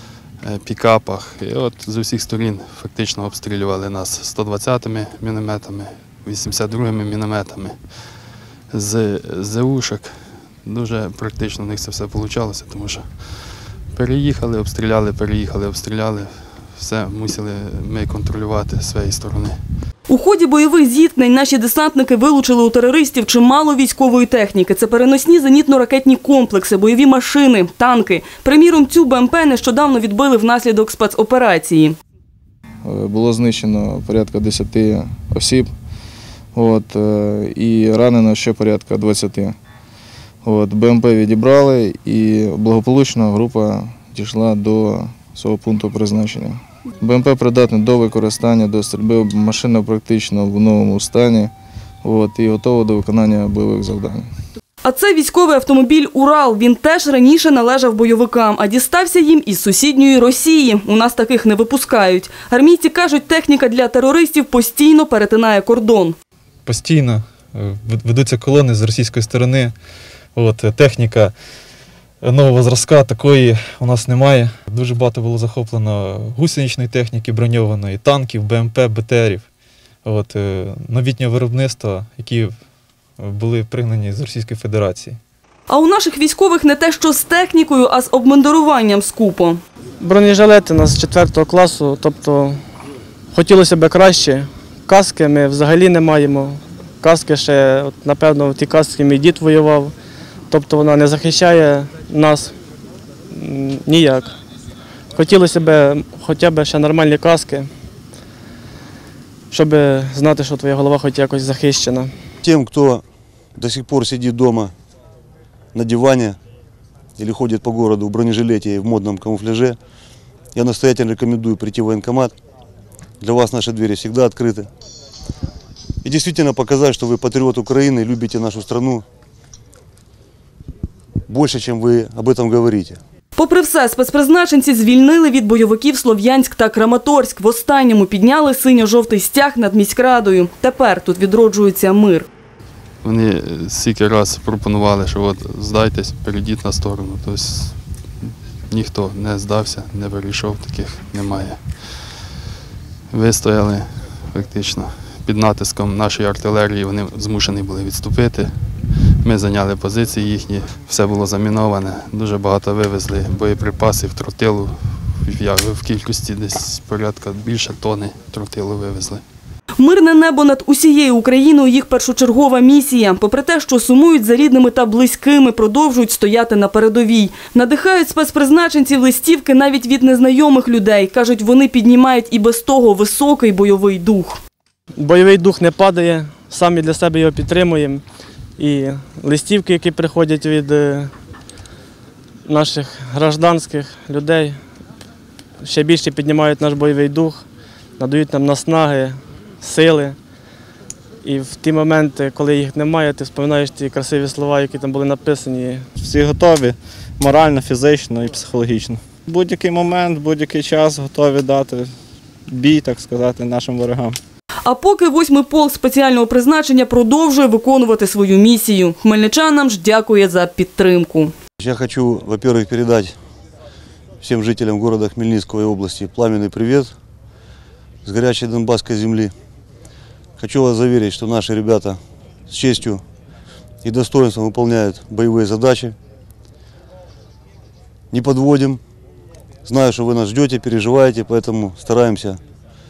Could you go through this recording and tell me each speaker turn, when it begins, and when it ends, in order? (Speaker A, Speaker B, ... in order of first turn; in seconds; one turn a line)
Speaker A: 0.4-19.6
Speaker B: 20.1-32.0
Speaker C: 32.8-35.7
Speaker C: 36.5-39.6
Speaker C: 40.4-51.5
Speaker C: 52.0-54.3
Speaker B: 54.8-66.2
Speaker D: 66.7-69.7
Speaker D: 70.3-71.3
Speaker D: 72.2-79.5
Speaker D: 80.0-82.5
Speaker D: 83.2-85.2
Speaker B: 85.7-89.6
Speaker E: 90.0-92.6
Speaker E: 93.3-99.9
Speaker E: 100.5-102.5
Speaker E: 103.3-104.3
Speaker E: 105.1-107.7
Speaker E: 109.5-112.1
Speaker F: 112.4-113.0
Speaker F: 113.6-114.7
Speaker F: 115.7-116.4
Speaker F: 117.2-119.8
Speaker F: 120.5-122.3
Speaker F: 123.2-124.7
Speaker F: 126.0-129.0
Speaker F: 131.3-133.0
Speaker B: 133.4-142.3
Speaker A: 143.0-152.2
Speaker A: 153.1-169.2
Speaker B: 169.8-184.4
Speaker E: 185.0-188.0
Speaker E: 188.6-191.1
Speaker E: 192.5-194.6
Speaker E: 195.6-197.4
Speaker E: 198.0-200.2
Speaker E: 201.2-205.8
Speaker G: 206.0-211.9
Speaker G: 212.5-214.2
Speaker B: 214.7-221.3
Speaker F: 221.6-223.2
Speaker F: 224.2-226.9
Speaker F: 228.1-229.3
Speaker F: 230.4-233.0
Speaker F: 233.8-236.0
Speaker F: 238.1-238.8
Speaker F: 239.7-242.4